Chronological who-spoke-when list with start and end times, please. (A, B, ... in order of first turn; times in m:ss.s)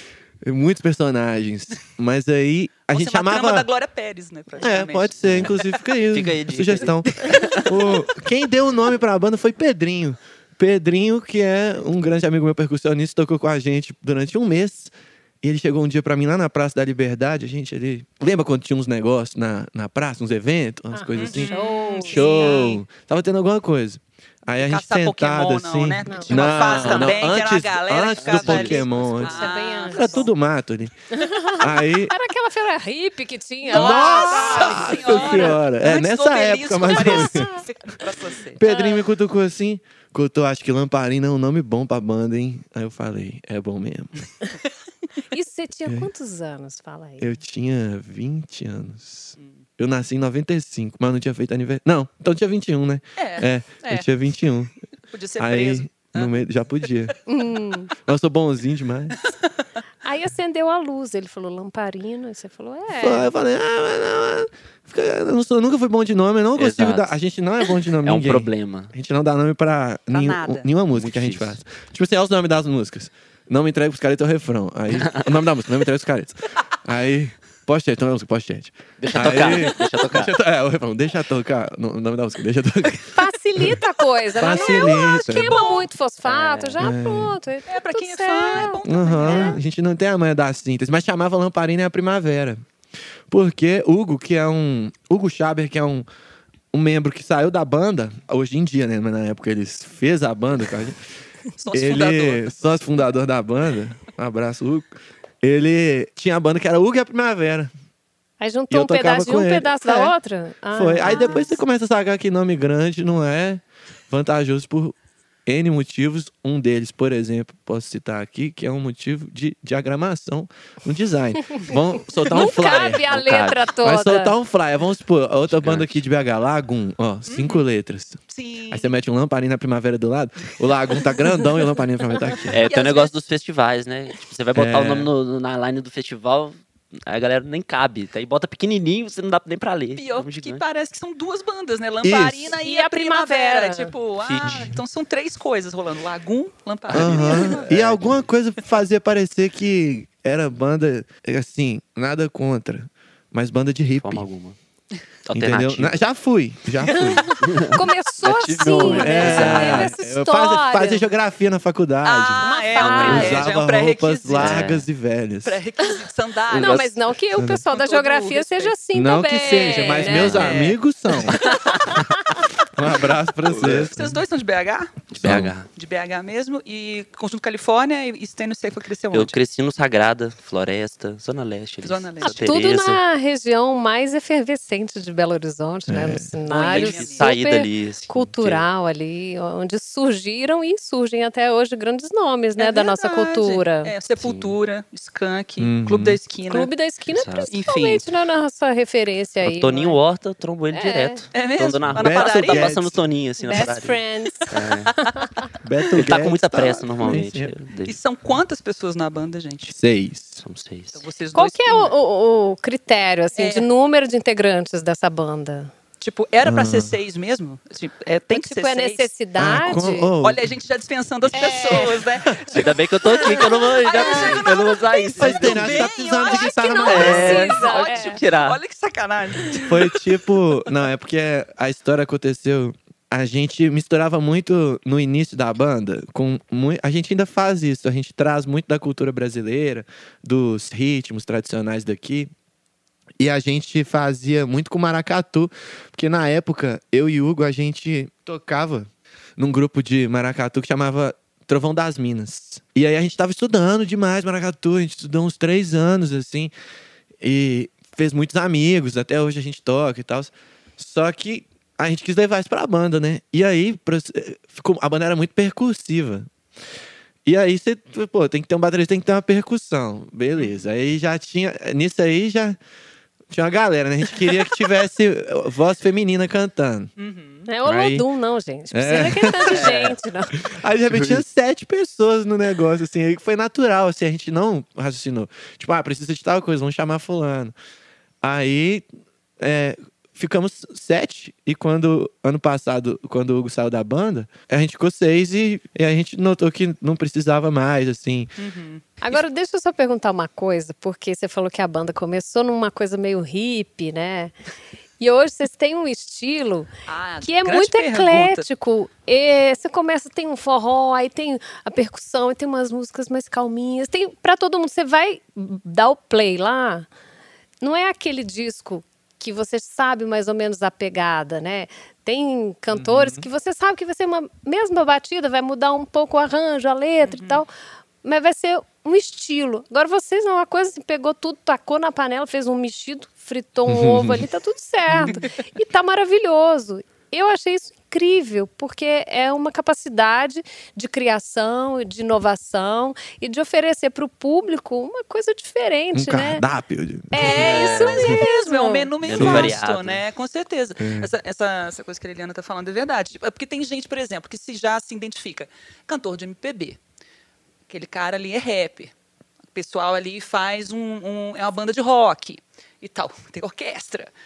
0:00.4-0:03.7 A
0:02.9-0:05.5 B
0:04.6-0:30.9 A
0:05.2-0:05.6 C
0:06.1-0:07.6 C
0:07.3-0:07.7 B
0:20.9-0:22.6 D
0:21.2-0:22.8 B
0:24.6-0:30.3 B
0:26.1-0:26.4 D
0:26.4-0:27.2 C
0:28.2-0:29.1 C
0:29.2-0:30.3 D
0:31.1-0:35.6 D
0:31.5-0:32.2 A
0:33.7-0:38.7 B
0:33.7-0:37.5 A
0:36.8-0:37.6 D
0:38.6-0:44.1 A
0:38.6-0:39.0 D
0:45.3-0:47.3 D
0:47.2-0:54.7 A
0:49.4-0:49.6 B
0:53.2-0:54.1 B
0:55.1-0:57.1 B
0:55.4-0:57.2 A
0:57.3-0:57.9 D
0:58.1-0:59.2 A
1:00.0-1:03.3 D
1:02.9-1:23.8 A
1:06.6-1:07.2 C
1:08.0-1:08.9 C
1:10.1-1:10.7 B
1:11.0-1:11.6 C
1:15.0-1:15.3 C
1:19.0-1:20.4 C
1:23.2-1:29.6 D
1:24.4-1:25.6 A
1:24.4-1:24.8 B
1:25.4-1:25.9 B
1:26.2-1:26.8 C
1:26.8-1:27.4 A
1:27.7-1:29.6 B
1:28.8-1:32.6 A
1:33.3-1:36.1 A
1:36.7-1:41.0 A
1:41.6-1:42.6 B
1:41.7-1:44.9 A
1:45.4-1:47.7 A
1:48.4-1:51.5 D
1:48.7-1:50.1 A
1:50.7-2:03.1 A
1:51.0-1:51.5 B
2:02.3-2:04.3 D
2:03.1-2:03.6 C
2:03.8-2:12.6 A
2:05.5-2:06.0 C
2:07.3-2:07.6 B
2:08.3-2:08.9 B
2:12.5-2:20.6 C
2:12.7-2:13.1 B
2:14.6-2:15.1 A
2:20.0-2:27.6 B
2:22.0-2:22.6 A
2:22.6-2:23.9 D
2:24.2-2:24.8 C
2:26.9-2:28.3 C
2:26.9-2:34.2 A
2:27.2-2:27.6 D
2:34.0-2:34.6 C
2:35.3-2:36.0 C
2:35.3-2:37.5 A
2:36.9-2:41.1 D
2:37.4-2:39.9 C
2:38.6-2:45.6 A
2:42.0-2:44.6 B
2:42.4-2:43.4 D
2:42.8-2:43.4 C
2:44.4-2:44.9 C
2:45.4-2:46.9 B
2:46.5-2:46.9 C
2:46.5-2:50.4 D
2:47.4-2:47.6 A
2:47.7-2:48.8 B
2:48.9-2:51.4 A
2:49.4-2:50.8 B
2:49.9-2:50.6 C
2:51.4-2:51.7 B
2:51.4-2:52.3 D
2:52.7-2:54.2 A
2:53.5-2:53.9 C
2:53.9-2:55.0 B
2:55.1-2:55.7 C
2:55.2-2:55.5 A
2:55.8-2:59.4 B
2:59.1-3:03.0 C
3:01.8-3:02.6 B
3:02.2-3:13.9 D
3:05.9-3:06.3 A
3:06.5-3:07.3 B
3:06.5-3:08.6 C
3:12.6-3:16.7 B
3:14.2-3:14.6 C
3:15.6-3:16.2 A
3:16.5-3:20.0 D
3:17.1-3:17.5 C
3:17.5-3:18.0 B
3:19.4-3:24.0 C
3:20.7-3:21.2 D
3:21.3-3:22.7 B
3:22.0-3:23.0 A
3:23.4-3:24.5 D
3:24.5-3:25.0 C
3:25.6-3:27.5 A
3:26.0-3:28.0 C
3:27.9-3:29.7 B
3:29.7-3:30.4 A
3:30.4-3:31.0 C
3:30.9-3:31.9 B
3:31.3-3:35.7 D
3:33.4-3:33.7 B
3:36.0-3:39.1 B
3:36.4-3:37.0 A
3:38.3-3:40.1 D
3:39.4-3:40.4 A
3:40.2-3:50.0 B
3:41.3-3:42.0 D
3:42.5-3:45.9 C
3:43.2-3:44.5 D
3:45.2-3:47.6 A
3:46.3-3:48.2 D
3:46.9-3:48.6 C
3:49.6-4:02.3 A
4:03.2-4:16.5 A
4:17.2-4:26.3 A
4:27.2-4:32.6 A
4:30.4-4:30.7 B
4:33.3-4:36.9 A
4:37.0-4:37.5 B
4:37.5-4:40.4 D
4:37.6-4:38.1 A
4:38.7-4:39.8 A
4:39.5-4:39.9 B
4:40.4-4:47.6 A
4:40.9-4:41.2 C
4:48.2-4:48.9 A
4:49.4-4:58.3 A
4:58.4-4:59.2 B
4:59.0-5:04.3 D
5:05.0-5:06.7 D
5:06.9-5:08.5 B
5:07.2-5:16.9 D
5:17.6-5:27.5 D
5:22.7-5:23.3 A
5:27.0-5:27.4 B
5:28.0-5:46.4 D
5:33.7-5:34.3 A
5:45.9-5:47.3 A
5:47.1-5:49.4 D
5:47.2-5:56.8 B
5:47.3-5:48.2 C
5:49.0-5:50.0 C
5:49.2-5:49.5 A
5:50.8-5:51.1 A
5:57.7-5:58.9 B
5:59.5-6:04.1 B